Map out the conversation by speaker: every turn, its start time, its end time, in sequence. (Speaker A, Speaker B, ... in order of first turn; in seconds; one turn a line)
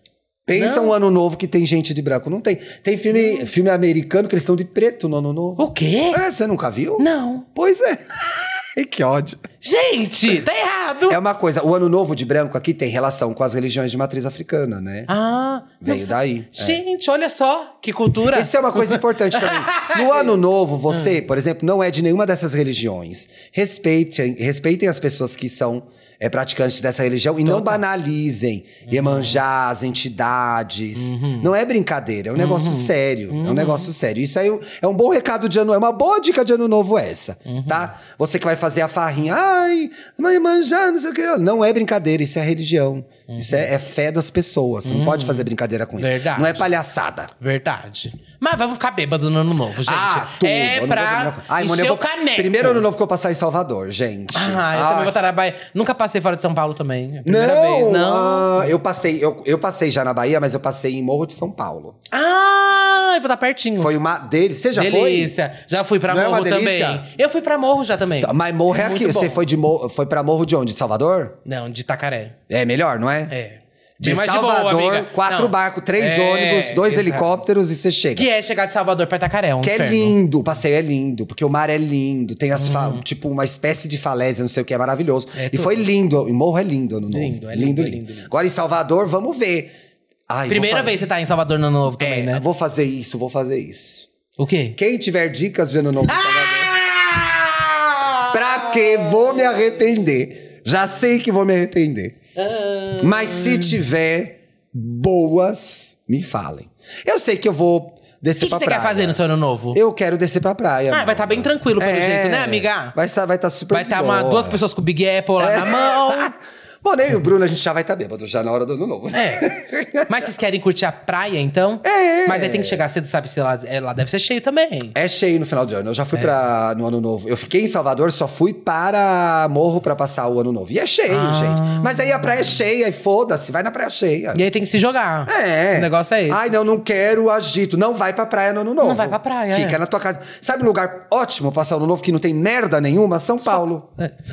Speaker A: 0.5-9.4
Speaker B: 0.5-0.9
Speaker B: 5.6-6.2
Speaker B: 7.0-7.5
Speaker B: 9.6-11.2
Speaker A: 11.1-15.1
Speaker B: 15.1-20.3
Speaker A: 15.8-16.8
Speaker A: 18.3-47.3
Speaker B: 20.9-21.2
Speaker B: 27.4-27.8
Speaker B: 28.9-29.4
Speaker B: 31.0-31.5
Speaker B: 32.4-33.9
Speaker B: 37.5-37.9
Speaker B: 43.3-43.7
Speaker B: 44.9-45.5
Speaker B: 46.0-46.7
Speaker B: 47.4-52.9
Speaker A: 49.9-55.1
Speaker B: 54.3-58.7
Speaker A: 57.2-62.0
Speaker B: 62.1-63.9
Speaker A: 63.8-65.3
Speaker B: 64.7-69.4
Speaker A: 66.1-67.1
Speaker A: 68.2-71.4
Speaker B: 71.5-72.4
Speaker A: 72.5-73.3
Speaker B: 73.3-77.3
Speaker A: 74.0-78.3
Speaker B: 78.2-80.2
Speaker A: 79.6-89.7
Speaker B: 82.5-83.0
Speaker B: 85.4-85.9
Speaker B: 87.1-88.3
Speaker A: 90.3-91.0
Speaker B: 90.5-92.4
Speaker A: 92.0-94.1
Speaker B: 94.4-94.8
Speaker A: 94.8-96.8
Speaker B: 96.1-99.5
Speaker A: 98.3-102.2
Speaker B: 102.4-103.8
Speaker A: 103.0-109.2
Speaker B: 108.4-109.8
Speaker A: 109.7-114.6
Speaker B: 110.9-113.0
Speaker B: 113.7-116.3
Speaker A: 115.4-120.1
Speaker B: 119.1-125.0
Speaker A: 121.8-122.8
Speaker A: 125.0-134.4
Speaker B: 131.1-132.5
Speaker B: 134.3-136.5
Speaker A: 135.3-143.9
Speaker B: 138.8-139.8